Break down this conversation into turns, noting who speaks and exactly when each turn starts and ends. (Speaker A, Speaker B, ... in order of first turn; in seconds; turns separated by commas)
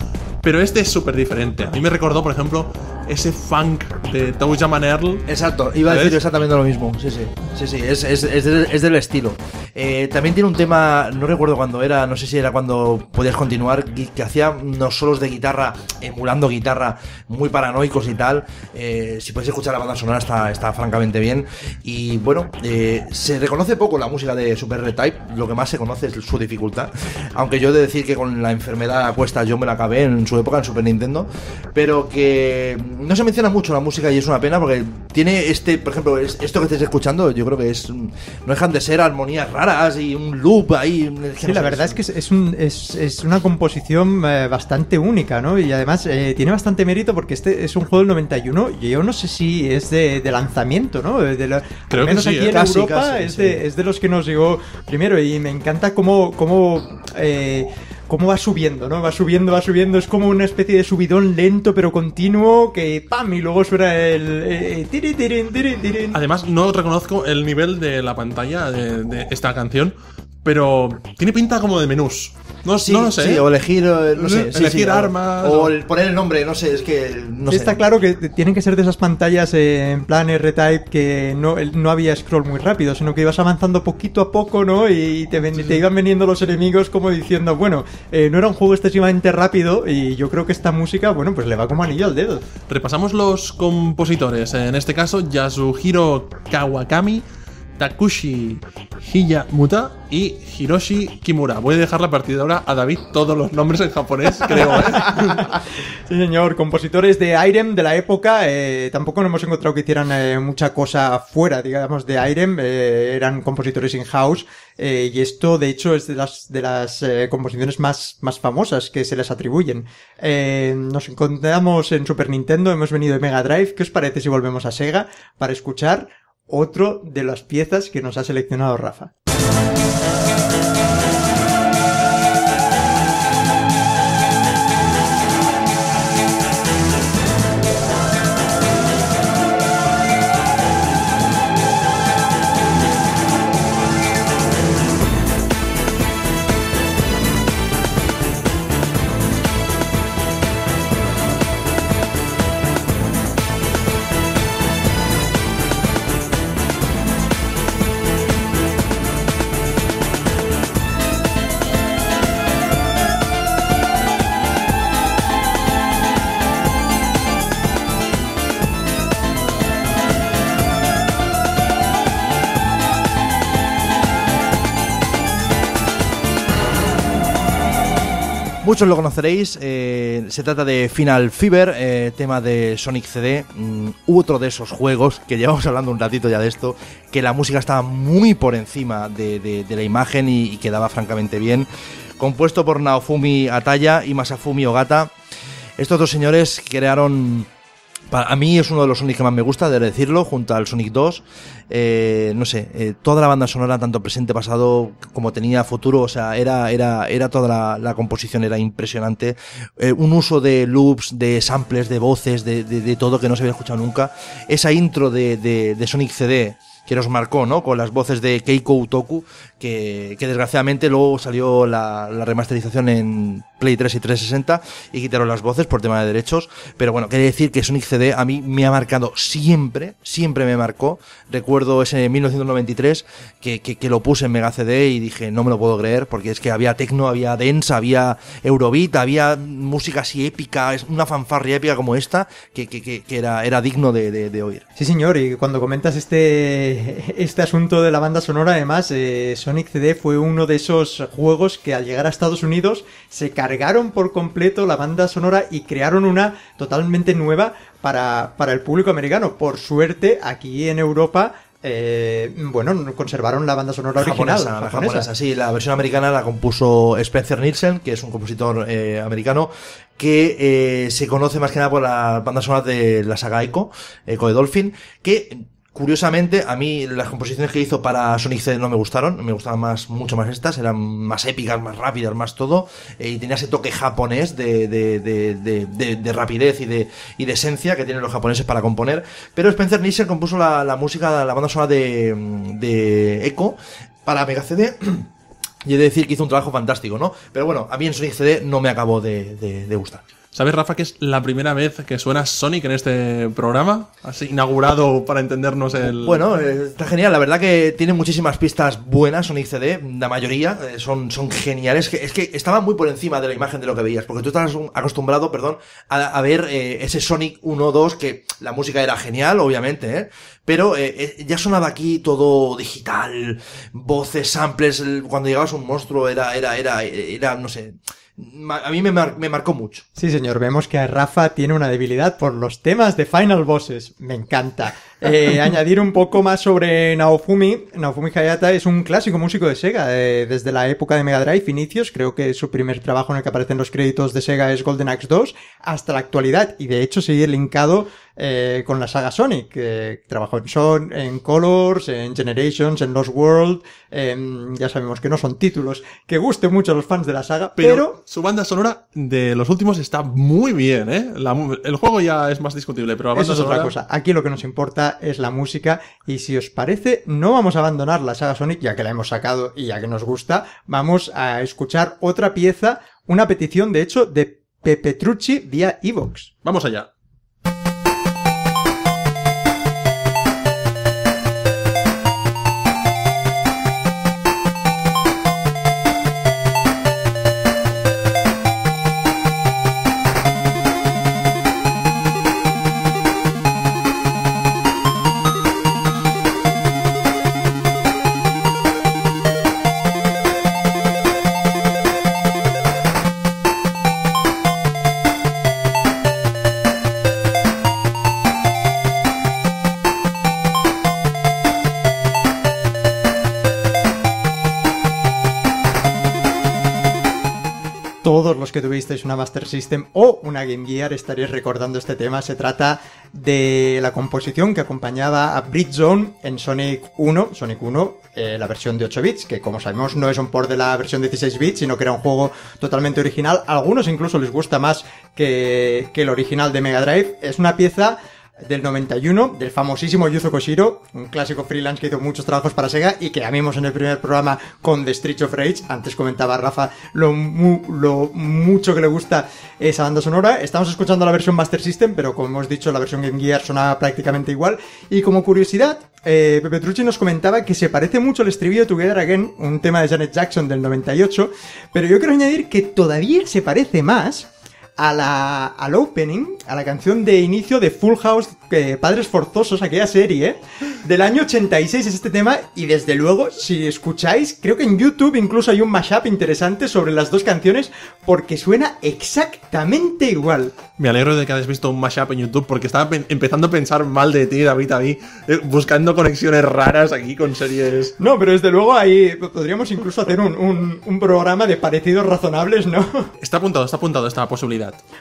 Speaker A: 0.4-5.3, Speaker B: 5.3-42.0, Speaker A: 5.9-6.2, Speaker C: 41.4-66.2, Speaker A: 51.9-52.6, Speaker B: 52.5-53.6, Speaker A: 66.1-73.5, Speaker B: 72.8-77.8, Speaker A: 74.2-75.7, Speaker C: 77.5-92.5, Speaker A: 85.5-85.8, Speaker A: 92.7-97.2, Speaker A: 97.8-105.6, Speaker C: 104.7-105.5, Speaker C: 106.1-129.1, Speaker B: 178.6-191.7, Speaker B: 192.2-195.1, Speaker B: 195.8-197.5, Speaker B: 198.1-244.6, Speaker C: 244.8-265.1, Speaker B: 264.0-295.1, Speaker B: 295.6-300.0, Speaker A: 300.3-306.2, Speaker B: 305.8-329.8, Speaker C: 330.0-358.0, Speaker A: 357.6-363.7, Speaker C: 363.1-376.3, Speaker A: 376.4-376.9, Speaker C: 418.0-480.6, Speaker A: 480.8-488.0, Speaker C: 488.0-493.1, Speaker A: 493.2-494.8